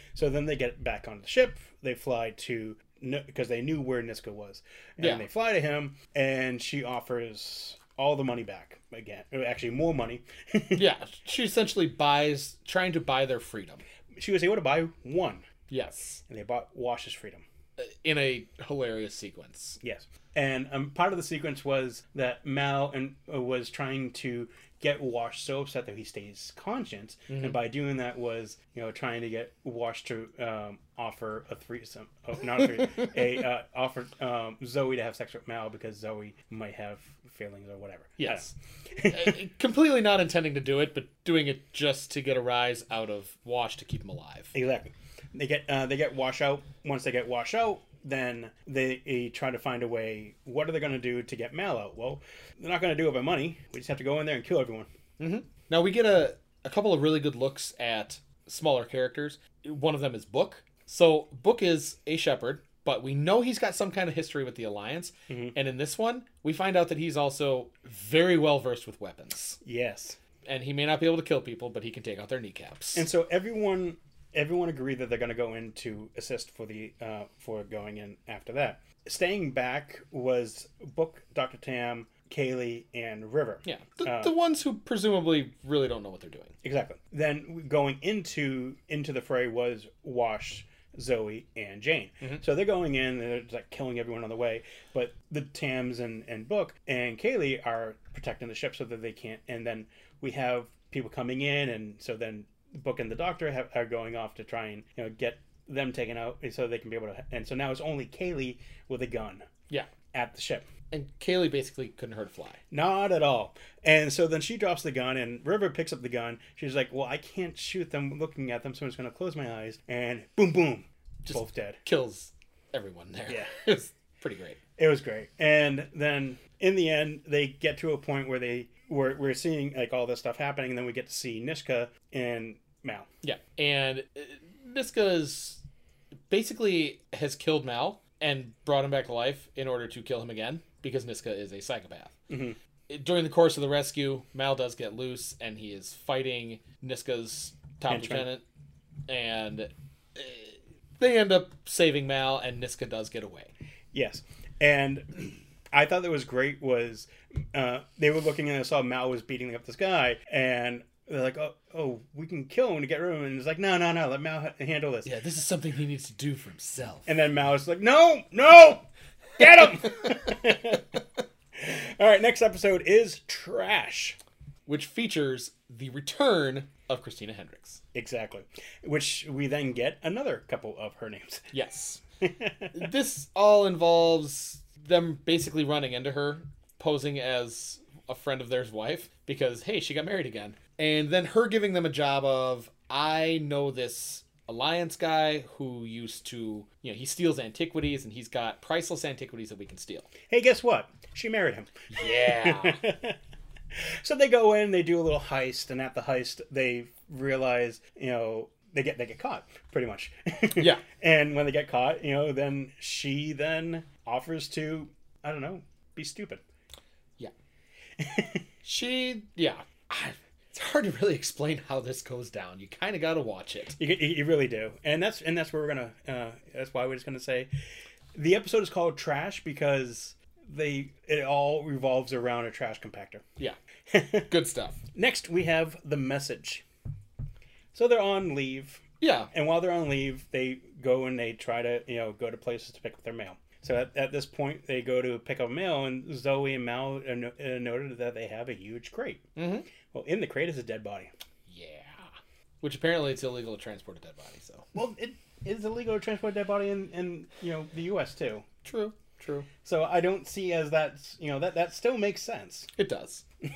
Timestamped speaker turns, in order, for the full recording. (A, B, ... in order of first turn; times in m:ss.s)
0:00.1-0:10.8 A
0:05.0-0:05.2 B
0:10.7-0:13.8 B
0:14.2-0:15.4 A
0:15.7-0:16.2 B
0:16.3-0:17.4 A
0:17.8-0:19.8 B
0:19.8-0:39.4 A
0:27.3-0:27.6 B
0:38.2-0:44.5 B
0:44.5-0:54.9 A
0:55.2-1:09.6 B
1:05.3-1:05.5 A
1:09.6-1:10.2 A
1:10.4-1:13.0 B
1:12.9-1:24.3 A
1:23.6-1:26.5 B
1:26.6-1:49.5 A
1:50.1-1:50.7 A
1:50.9-1:52.6 B
1:52.7-2:01.8 A
2:01.2-2:04.6 B
2:03.3-2:03.5 A
2:04.8-2:13.1 A
2:13.2-2:15.6 B
2:16.3-2:22.2 B
2:22.3-2:22.6 A
2:22.9-2:28.4 B
2:27.9-2:28.3 A
2:29.1-2:33.5 B
2:33.9-2:45.1 A
2:45.0-2:47.1 B
2:47.0-2:48.8 A
2:49.4-2:51.0 A
2:51.5-2:54.2 A
2:54.7-2:57.8 B
2:57.9-3:01.5 A
3:01.5-3:02.0 B
3:02.2-3:02.9 A
3:02.7-3:20.1 B
3:20.3-3:23.2 A
3:21.9-3:22.8 B
3:23.7-3:36.4 A
3:30.6-3:30.8 B
3:38.0-3:38.4 A
3:38.6-3:43.8 B
3:43.8-3:47.5 A
3:48.1-3:53.2 A
3:53.9-3:54.3 A
3:54.2-3:54.8 B
3:54.9-3:56.6 A
3:57.7-4:09.3 A
3:59.0-3:59.3 B
4:09.4-4:09.6 B
4:09.9-4:11.1 A
4:11.5-4:14.7 B
4:14.7-4:18.4 A
4:18.6-4:19.5 B
4:19.6-4:22.7 A
4:22.8-4:23.2 B